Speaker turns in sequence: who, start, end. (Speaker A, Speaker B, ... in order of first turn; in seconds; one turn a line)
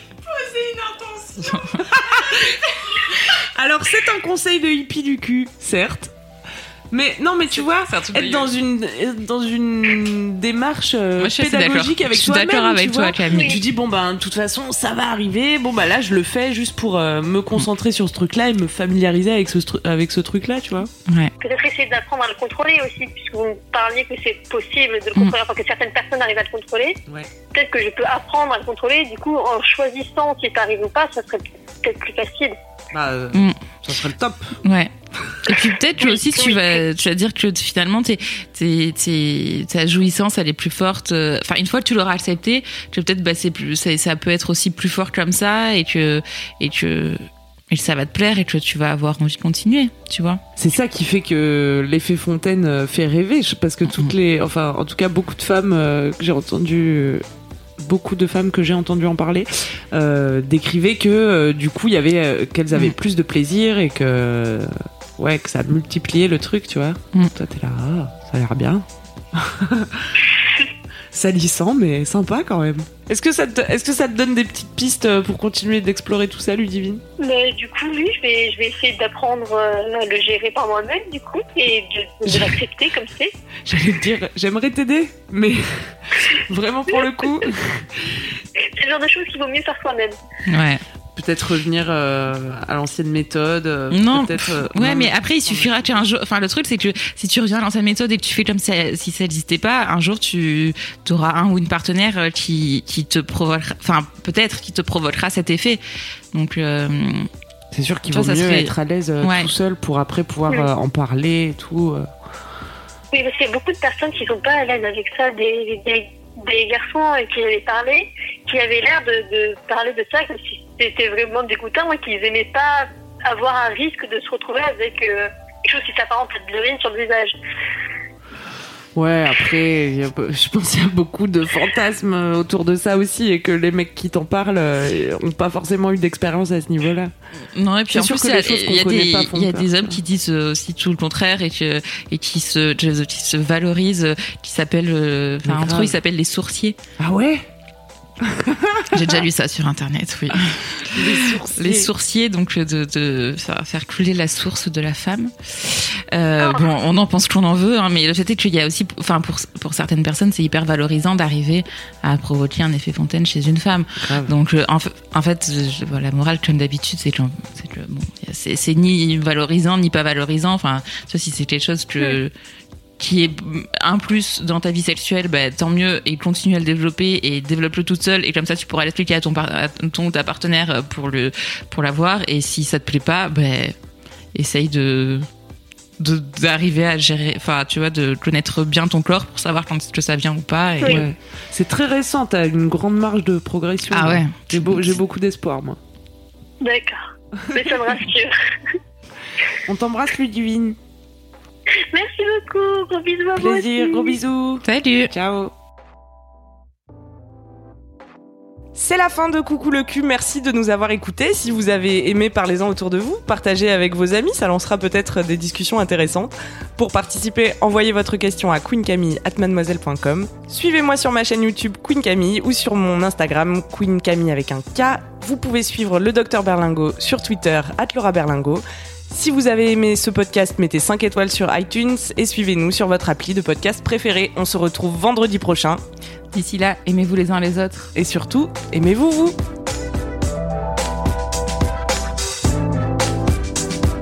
Speaker A: 0.3-6.1
Speaker A: 6.9-20.9
Speaker B: 7.5-8.5
Speaker B: 11.2-13.5
Speaker C: 13.3-13.6
Speaker B: 21.1-21.3
Speaker C: 21.4-27.0
Speaker C: 27.5-32.5
Speaker A: 32.9-34.6
Speaker B: 33.3-33.6
Speaker B: 34.6-34.9
Speaker B: 35.5-50.4
Speaker C: 36.0-36.8
Speaker A: 50.6-57.2
Speaker B: 53.9-54.1
Speaker A: 57.8-70.0
Speaker A: 71.1-77.0
Speaker C: 77.2-83.3
Speaker A: 83.7-88.2
Speaker C: 88.8-90.2
Speaker B: 90.5-90.8
Speaker A: 91.2-96.0
Speaker B: 93.9-105.8
Speaker B: 106.3-107.3
Speaker A: 107.7-112.1
Speaker B: 108.1-109.5
Speaker C: 113.1-127.4
Speaker A: 128.9-137.1
Speaker B: 137.5-146.8
Speaker A: 137.9-140.0
Speaker A: 145.4-146.0
Speaker A: 147.0-147.4
Speaker A: 148.2-148.9
Speaker B: 148.9-172.3
Speaker A: 150.9-151.9
Speaker C: 156.4-156.7
Speaker A: 164.0-164.3
Speaker B: 173.0-183.8
Speaker B: 184.3-185.2
Speaker B: 186.0-191.0
Speaker A: 190.8-195.8
Speaker B: 193.9-195.0
Speaker C: 196.6-197.0
Speaker C: 197.5-198.3
Speaker A: 199.7-200.8
Speaker C: 201.9-204.2
Speaker A: 203.4-205.5
Speaker B: 204.6-205.1
Speaker A: 208.8-235.8
Speaker B: 236.3-237.9
Speaker A: 237.9-239.4